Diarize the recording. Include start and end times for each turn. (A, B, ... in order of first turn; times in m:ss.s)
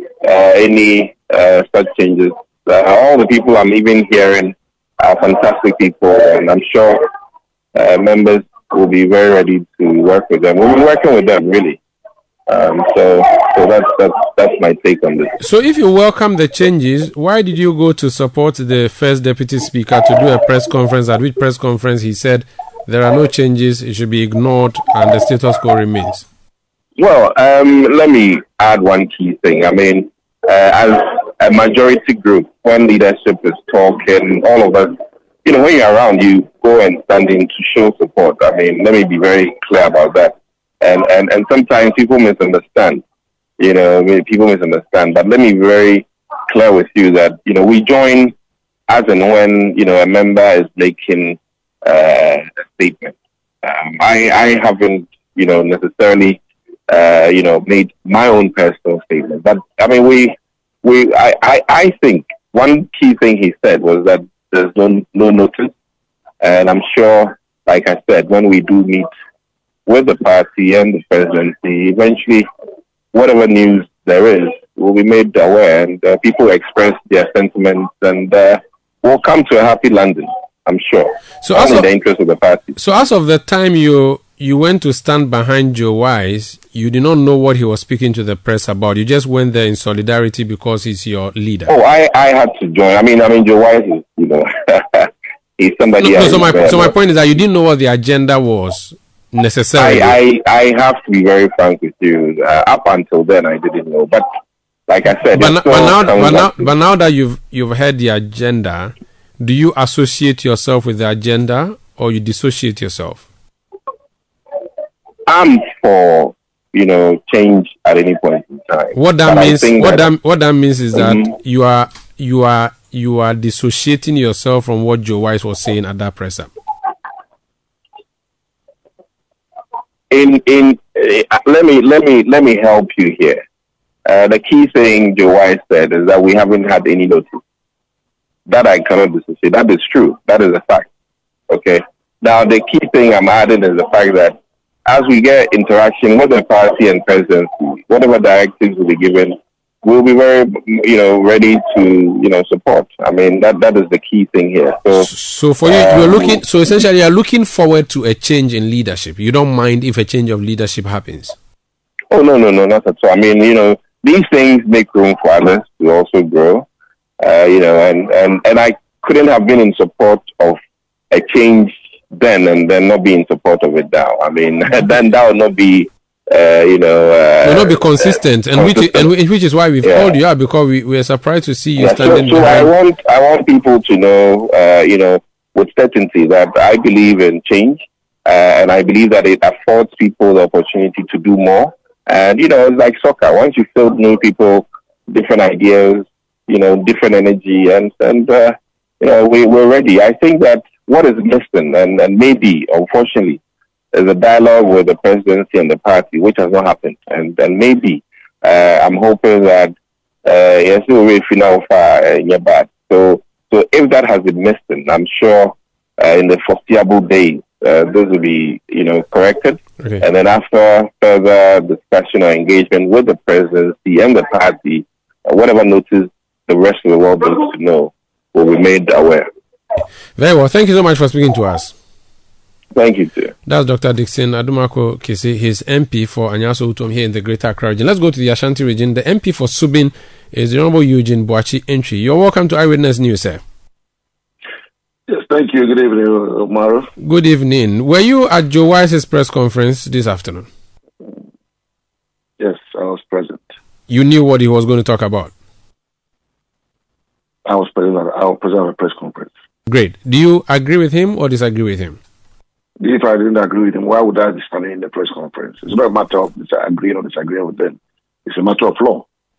0:00.2-0:07.1 A
0:07.8-0:11.8 A
0:12.5-0:15.4 A
0:15.4-0:26.3 B
0:27.0-0:43.0 A
0:43.6-0:48.4 A
0:48.9-1:05.7 A
1:06.4-1:09.1 A
1:09.9-1:12.5 A
1:13.1-1:22.7 A
1:21.4-1:21.9 B
1:22.8-1:31.7 B
1:31.7-1:36.9 A
1:36.0-1:40.2 B
1:39.8-1:44.2 A
1:44.9-1:46.7 A
1:45.4-1:53.3 B
1:55.3-2:00.1 A
1:58.9-2:06.5 B
2:00.9-2:01.3 A
2:10.1-2:13.4 A
2:14.1-2:17.4 A
2:18.5-2:20.9 A
2:21.5-2:35.1 A
2:35.0-2:41.4 B
2:35.7-2:36.4 A
2:42.1-2:46.7 A
2:47.2-2:50.6 A
2:51.1-2:59.1 A
2:57.4-3:02.7 B
2:59.8-3:00.1 A
3:01.8-3:23.4 A
3:23.9-3:29.7 A
3:30.2-3:49.3 A
3:50.2-3:51.7 B
3:52.7-3:53.3 A
3:53.5-4:03.4 B
4:05.1-4:06.9 C
4:07.0-4:10.5 B
4:12.4-4:13.4 C
4:13.9-4:15.3 B
4:17.5-4:19.3 C
4:19.7-4:22.0 B
4:22.8-4:29.1 C